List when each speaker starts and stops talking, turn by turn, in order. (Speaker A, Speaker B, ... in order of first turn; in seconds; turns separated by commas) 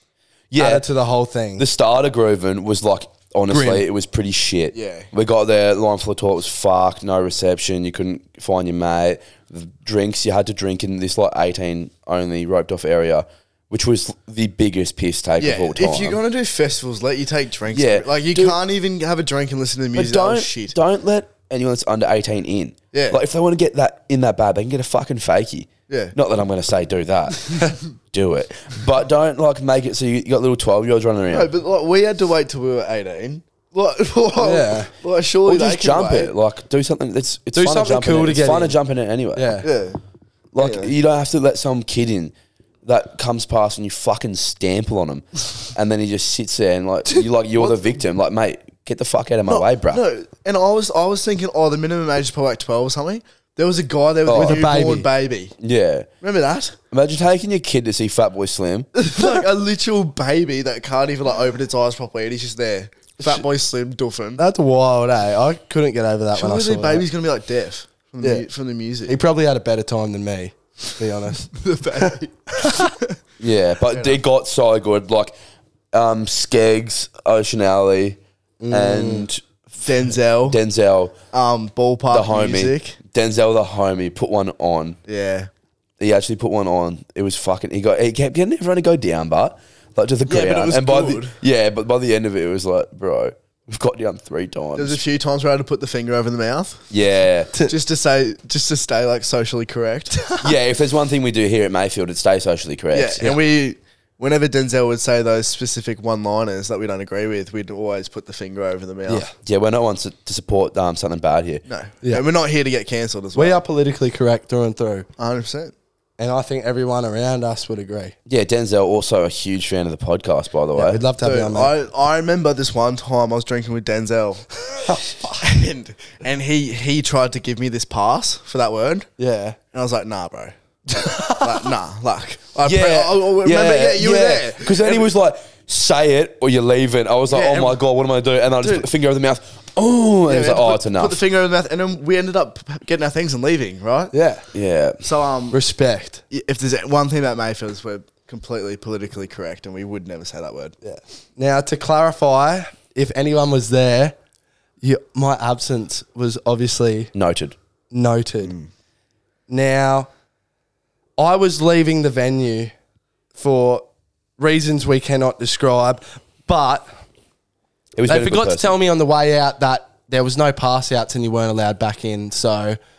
Speaker A: 0.5-0.9, Speaker B: 0.6-1.7, Speaker A: 1.6-16.2, Speaker B: 3.5-3.9, Speaker C: 4.7-5.1, Speaker C: 15.4-20.8, Speaker A: 17.7-18.6, Speaker A: 19.9-31.5, Speaker C: 22.9-23.2, Speaker C: 25.9-26.1, Speaker C: 31.3-36.3, Speaker B: 34.4-34.9, Speaker A: 35.5-39.6, Speaker B: 37.5-38.8, Speaker B: 39.3-39.7, Speaker C: 39.6-40.0, Speaker A: 40.5-50.0, Speaker C: 40.6-40.9, Speaker C: 49.5-55.5, Speaker A: 54.2-54.6, Speaker B: 54.3-55.1, Speaker A: 55.6-56.1, Speaker C: 56.2-56.8, Speaker A: 56.9-58.9, Speaker C: 59.0-64.4, Speaker B: 64.4-67.1, Speaker C: 66.3-69.2, Speaker B: 68.2-68.5, Speaker B: 69.1-72.9, Speaker C: 71.5-73.1, Speaker A: 73.4-75.3, Speaker A: 75.9-78.2, Speaker B: 78.6-79.3, Speaker A: 78.7-79.5, Speaker C: 79.8-80.6, Speaker A: 80.4-81.2, Speaker C: 81.3-83.0, Speaker A: 82.1-85.0, Speaker C: 85.1-85.5, Speaker A: 86.0-95.0, Speaker C: 90.3-91.3, Speaker C: 94.8-96.9, Speaker A: 96.9-97.5, Speaker C: 97.7-100.3, Speaker A: 100.4-103.4, Speaker C: 102.9-109.3, Speaker A: 109.4-111.6, Speaker C: 111.7-113.6, Speaker B: 113.3-115.1, Speaker C: 115.2-115.7, Speaker B: 116.2-118.2, Speaker A: 118.3-121.0, Speaker B: 120.8-121.7, Speaker C: 121.2-124.6, Speaker B: 124.9-125.3, Speaker C: 125.3-129.1, Speaker B: 129.2-129.6, Speaker C: 129.7-130.5, Speaker B: 130.9-131.7, Speaker C: 131.3-135.1, Speaker A: 132.6-141.2, Speaker C: 140.3-144.1, Speaker B: 144.1-144.4, Speaker A: 144.5-145.0, Speaker C: 145.0-145.6, Speaker B: 145.5-146.2, Speaker C: 146.3-150.8, Speaker B: 150.8-154.2, Speaker B: 154.8-157.1, Speaker A: 157.1-157.6, Speaker B: 157.9-158.5, Speaker C: 158.4-158.7, Speaker B: 159.5-160.1, Speaker B: 161.2-162.7, Speaker B: 163.3-163.9, Speaker B: 164.4-166.9, Speaker A: 168.0-168.8, Speaker B: 168.1-172.8